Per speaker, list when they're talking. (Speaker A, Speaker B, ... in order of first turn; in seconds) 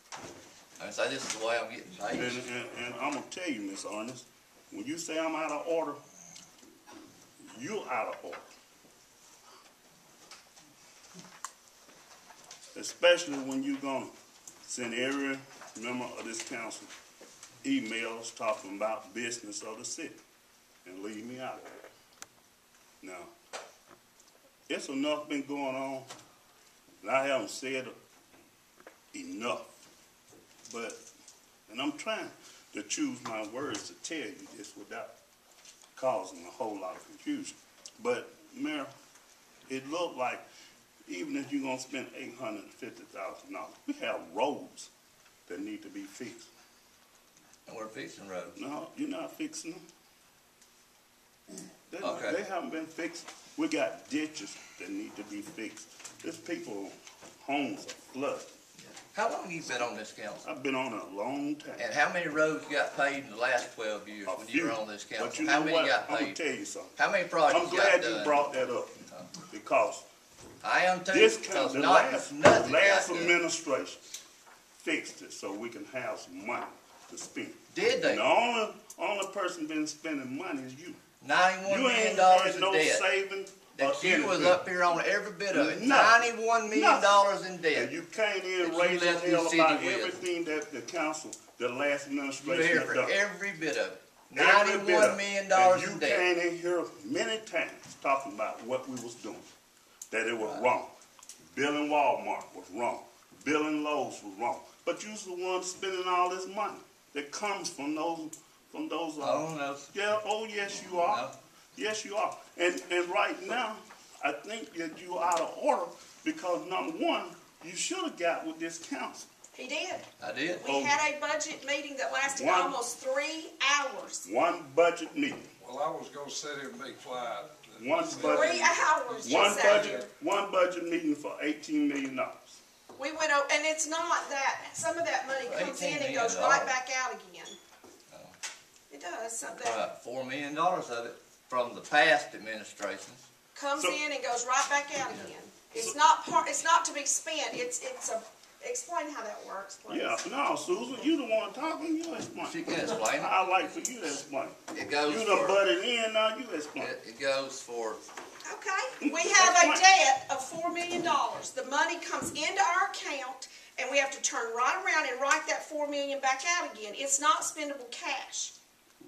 Speaker A: 0.8-2.5, 47.7-48.6, 52.0-52.4, 58.8-60.4, 61.8-66.4, 67.0-68.4, 70.6-73.3, 77.7-78.2, 81.2-83.0, 83.8-87.9, 88.6-90.2, 92.4-96.2, 100.4-100.6, 109.2-109.9, 111.0-111.3, 120.2-120.6, 135.4-136.7, 138.1-138.3, 139.6-143.2, 152.5-153.5, 154.7-155.6, 156.8-158.0
Speaker B: 2.1-6.0, 7.4-8.4, 12.7-14.1, 14.6-16.9, 17.6-20.2, 20.8-21.8, 23.0-23.3, 24.7-26.1, 27.0-27.9, 29.1-29.7, 30.7-31.0, 31.7-35.1, 36.0-38.9, 39.7-40.4, 41.0-44.9, 45.5-46.5, 48.5-49.8, 51.9-58.5, 60.4-61.9, 64.3-70.0, 71.1-74.1, 74.8-81.0, 81.6-84.6, 85.5-93.2, 94.3-99.5, 100.1-100.9, 101.5-119.3, 120.6-121.0, 122.3-122.8, 124.2-125.5, 127.8-132.6, 149.9-156.9, 159.0-159.9
Speaker C: 119.5-124.3, 128.2-130.0, 133.0-137.6, 138.9-139.8, 143.5-150.2, 158.4-168.5
Speaker D: 125.6-130.0